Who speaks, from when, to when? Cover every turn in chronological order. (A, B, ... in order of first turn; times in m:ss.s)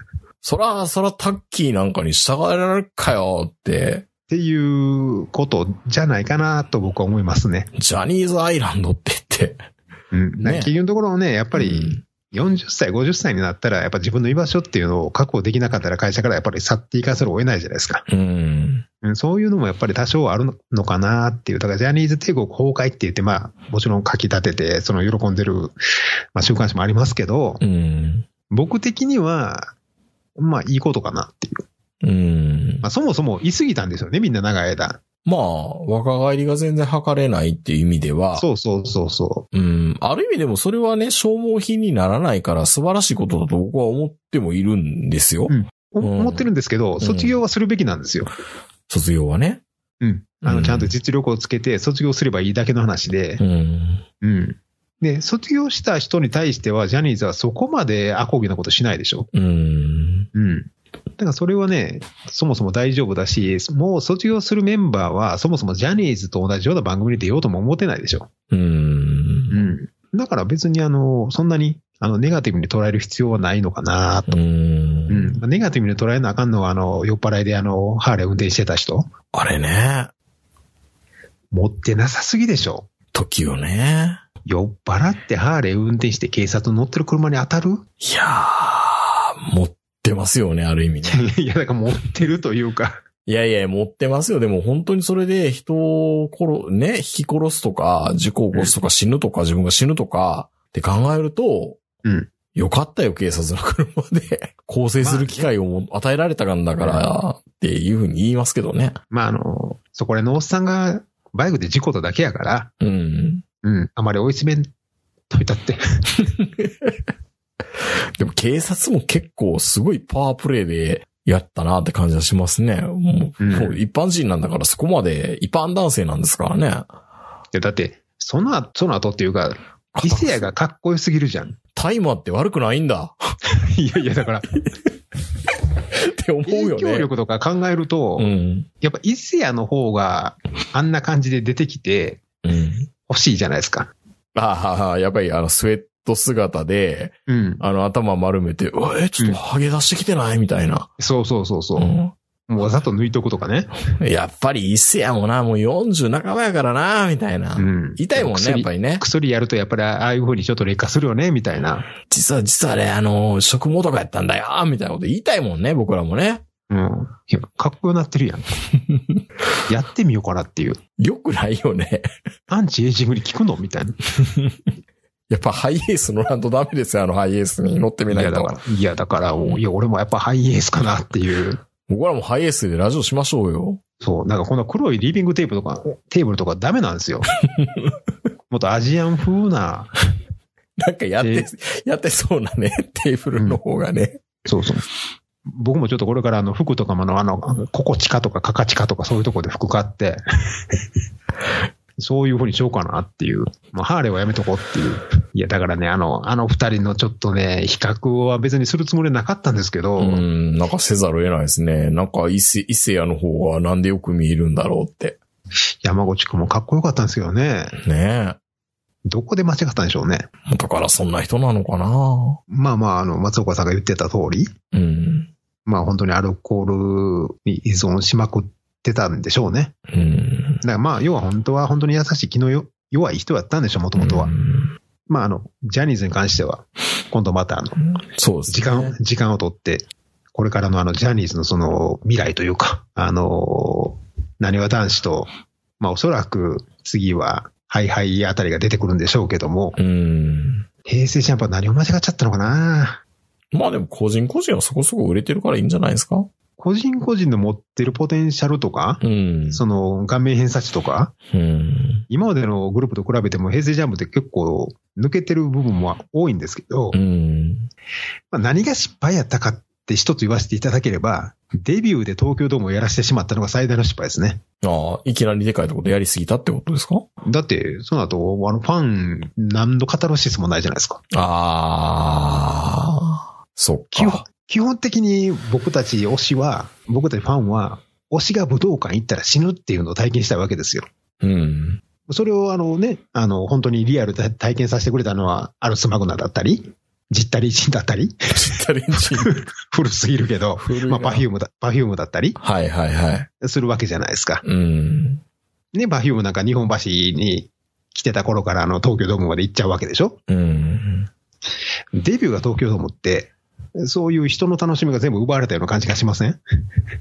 0:00.4-0:04.1 A
0:04.3-0:07.7 B
0:07.8-0:09.6 A
0:10.1-0:18.0 B
0:10.4-0:10.7 A
0:11.6-0:12.0 A
0:18.1-0:18.8 A
0:19.0-0:25.8 B
0:26.4-0:27.6 B
0:27.6-0:28.3 A
0:28.5-0:29.7 B
0:30.4-0:31.6 B
0:32.0-0:32.9 A
0:32.8-0:35.0 B
0:35.2-0:38.4 A
0:38.4-0:39.4 B
0:39.5-0:46.4 A
0:45.5-0:48.3 B
0:47.0-0:47.4 A
0:48.9-0:49.6 A
0:50.0-0:53.4 B
0:50.4-0:50.9 A
0:53.4-0:54.0 A
0:54.2-0:59.3 B
0:59.3-1:00.3 A
1:00.3-1:08.3 B
1:08.5-1:09.6 A
1:09.5-1:14.4 B
1:14.3-1:15.4 A
1:15.1-1:19.1 B
1:19.3-1:20.1 A
1:21.5-1:22.9 B
1:23.1-1:24.2 A
1:24.4-1:27.8 B
1:28.0-1:31.2 A
1:31.0-1:33.0 B
1:33.3-1:41.8 A
1:42.0-1:42.3 B
1:42.6-1:49.0 A
1:45.0-1:45.5 B
1:46.8-1:47.0 B
1:49.1-1:52.7 B
1:52.8-1:53.4 A
1:53.6-1:54.7 B
1:55.3-1:55.8 B
1:56.2-1:56.9 A
1:58.2-2:06.9 A
2:03.4-2:03.8 B
2:07.5-2:11.6 B
2:09.9-2:10.5 A
2:11.8-2:13.2 A
2:13.5-2:14.5 B
2:16.0-2:17.1 A
2:16.5-2:18.3 B
2:18.2-2:18.7 A
2:18.8-2:22.2 B
2:22.4-2:22.9 A
2:23.1-2:23.9 B
2:24.4-2:30.9 A
2:27.3-2:27.6 B
2:31.0-2:32.0 B
2:31.8-2:32.1 A
2:32.5-2:33.7 B
2:34.0-2:39.0 A
2:37.6-2:41.9 B
2:42.1-2:46.4 A
2:46.7-2:48.5 B
2:48.7-2:49.2 A
2:49.7-2:50.8 B
2:51.0-2:52.1 A
2:52.5-2:54.0 B
2:54.2-2:54.6 A
2:55.3-2:58.6 A
2:58.1-3:01.6 B
3:01.9-3:03.8 A
3:04.0-3:07.3 B
3:07.4-3:08.0 A
3:08.5-3:09.9 B
3:10.8-3:14.3 A
3:11.2-3:11.5 B
3:14.4-3:14.9 B
3:15.6-3:20.2 B
3:22.0-3:30.2 B
3:30.0-3:35.2 A
3:35.8-3:37.8 B
3:37.8-3:38.4 A
3:39.1-3:40.3 B
3:40.4-3:42.4 A
3:42.5-3:44.5 B
3:44.7-3:45.3 A
3:45.6-3:49.7 B
3:49.9-3:50.6 A
3:50.6-3:54.3 B
3:54.0-3:54.8 A
3:55.1-3:57.8 B
3:57.8-3:59.0 A
3:58.5-4:05.3 B
4:05.8-4:09.8 B
4:09.8-4:10.6 A
4:10.8-4:13.0 B
4:13.5-4:16.3 A
4:16.6-4:21.1 B
4:19.0-4:19.6 A
4:21.3-4:22.0 A
4:22.1-4:27.0 B
4:26.9-4:27.7 A
4:28.3-4:34.4 B
4:34.6-4:37.0 A
4:37.2-4:41.0 B
4:41.1-4:44.2 A
4:43.9-4:50.9 B
4:51.2-4:51.8 A
4:52.1-4:58.3 B
4:58.3-4:59.4 A
4:59.0-5:02.4 B
5:00.6-5:01.3 A
5:02.4-5:03.3 A
5:03.4-5:04.4 B
5:04.4-5:05.2 A
5:05.7-5:10.2 B
5:10.3-5:11.1 A
5:11.9-5:16.4 B